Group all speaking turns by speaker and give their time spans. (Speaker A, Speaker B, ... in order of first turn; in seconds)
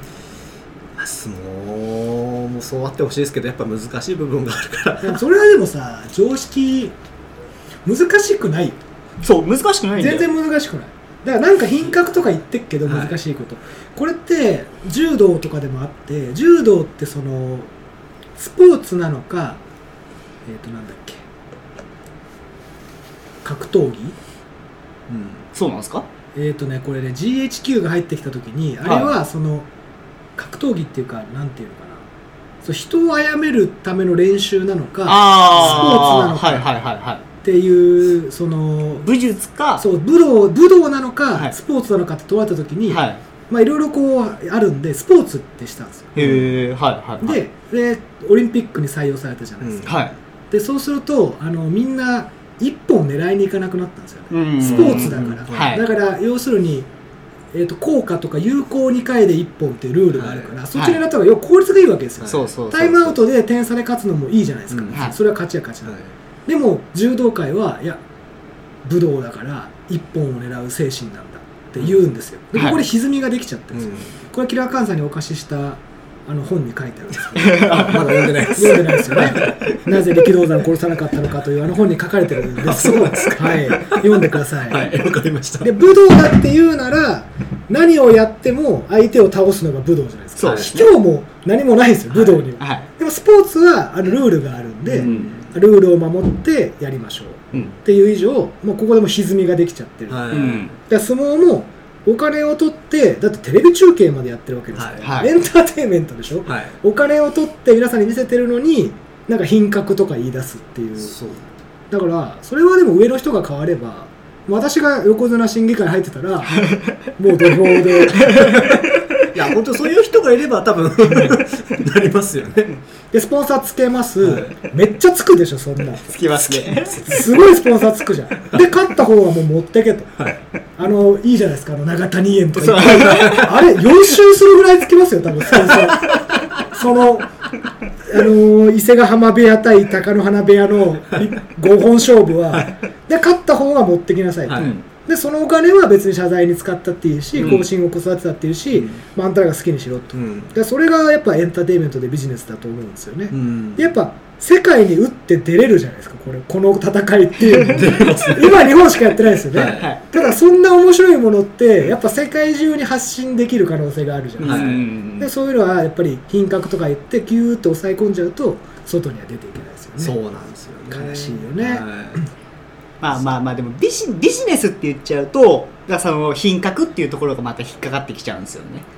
Speaker A: 0.9-5.2, 12.8-13.2, 25.1-25.4, 35.5-36.0, 46.2-46.4, 49.6-50.1, 54.6-55.8, 60.1-60.5, 62.2-62.5, 64.7-65.0, 65.8-66.1, 73.7-74.2, 77.7-80.0, 82.6-84.1, 84.7-85.7, 90.4-90.7, 94.9-95.5, 100.1-100.7, 104.7-105.0, 106.5-106.7, 111.0-111.5, 118.4-118.8, 119.3-122.7, 124.2-124.5, 126.3-127.0, 133.1-133.5, 144.5-144.7, 148.7-149.0, 150.1-150.5, 153.3-153.9, 157.6-158.6, 159.5-159.9, 164.4-164.8, 170.0-172.2
Speaker B: 5.0-6.9, 7.8-8.8, 10.0-17.7, 18.4-19.6, 20.4-21.2, 23.4-24.1, 26.3-29.7, 30.4-32.0, 32.6-36.6, 37.4-39.1, 39.8-46.5, 47.2-50.0, 50.5-56.9, 57.5-66.0, 66.5-68.0, 68.8-77.9, 78.5-84.9, 85.6-111.1, 111.9-116.6, 117.2-118.5, 123.1-126.1, 126.9-130.1, 130.8-137.3, 138.1-170.2, 170.9-172.2
Speaker C: 9.2-10.3, 25.5-26.1, 28.8-29.1, 35.1-37.2, 39.0-39.8, 42.9-43.2, 46.1-47.4, 49.9-50.1, 54.3-55.8, 60.8-61.0, 62.2-63.2, 77.4-78.5, 90.4-90.9, 92.2-92.9, 95.0-95.3, 100.3-100.7, 105.0-105.3, 116.5-117.0, 118.2-118.6, 126.1-127.0, 132.6-133.5, 144.5-144.8, 147.4-147.7, 164.4-165.3, 173.0-178.8